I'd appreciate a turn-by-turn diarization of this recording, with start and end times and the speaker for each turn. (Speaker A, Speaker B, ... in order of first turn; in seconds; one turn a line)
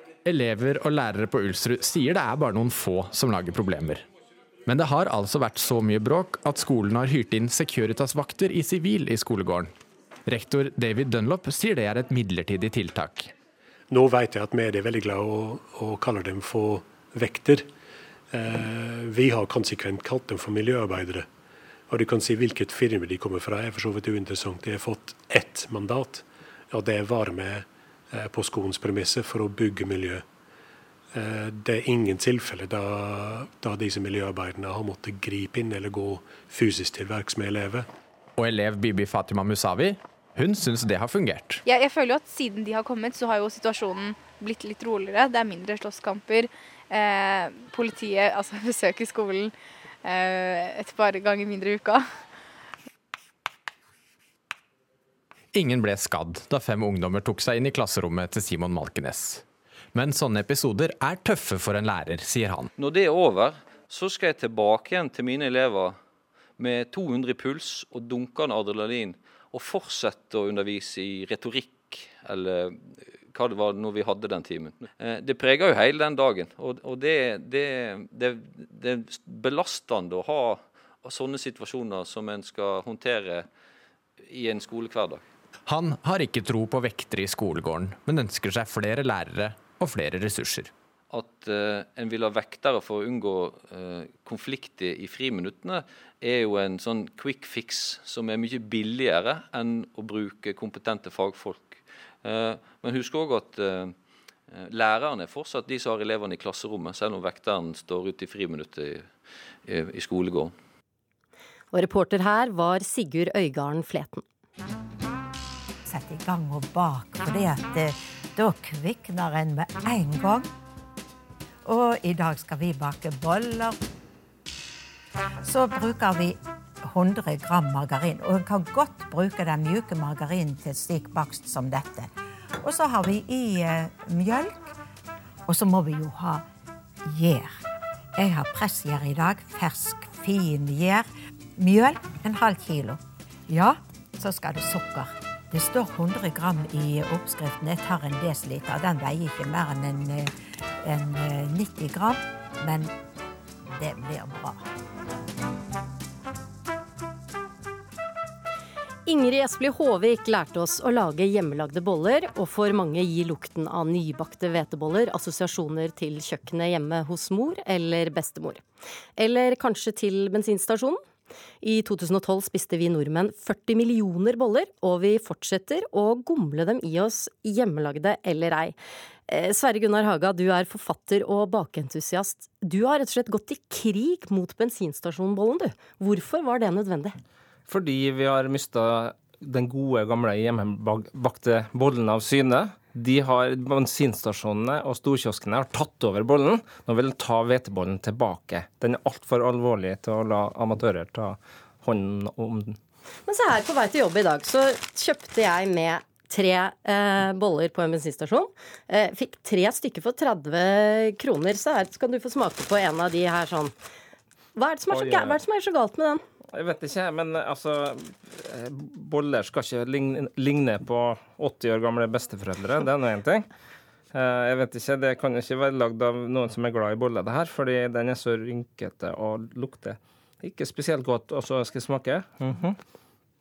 Speaker A: 0.2-4.0
Speaker A: 4.7-9.7
Speaker A: 10.3-13.3
Speaker B: 13.9-17.7
Speaker B: 18.3-21.3
Speaker B: 21.9-30.2
Speaker B: 31.1-37.9
Speaker A: 38.4-41.6
Speaker C: 41.6-49.5
Speaker C: 50.0-52.0
Speaker A: 55.5-62.7
Speaker D: 62.8-66.0
Speaker D: 66.6-83.5
Speaker D: 84.2-85.2
Speaker A: 85.7-90.7
Speaker D: 91.1-103.9
Speaker D: 104.5-109.1
Speaker D: 109.7-110.5
Speaker E: 111.7-114.2
Speaker F: 115.8-120.5
Speaker F: 121.7-123.8
Speaker F: 125.4-132.1
Speaker F: 132.6-134.7
Speaker F: 135.5-136.4
Speaker F: 137.1-137.5
Speaker F: 138.2-141.1
Speaker F: 141.6-150.3
Speaker F: 150.8-152.9
Speaker F: 153.8-154.6
Speaker E: 159.1-168.6
Speaker E: 169.2-171.0
Speaker E: 171.6-178.8
Speaker E: 179.3-187.1
Speaker G: 187.7-202.8
Speaker E: 203.3-213.7
Speaker E: 214.6-216.2
Speaker G: 214.9-215.4
Speaker G: 216.5-223.5
Speaker G: 224.1-232.8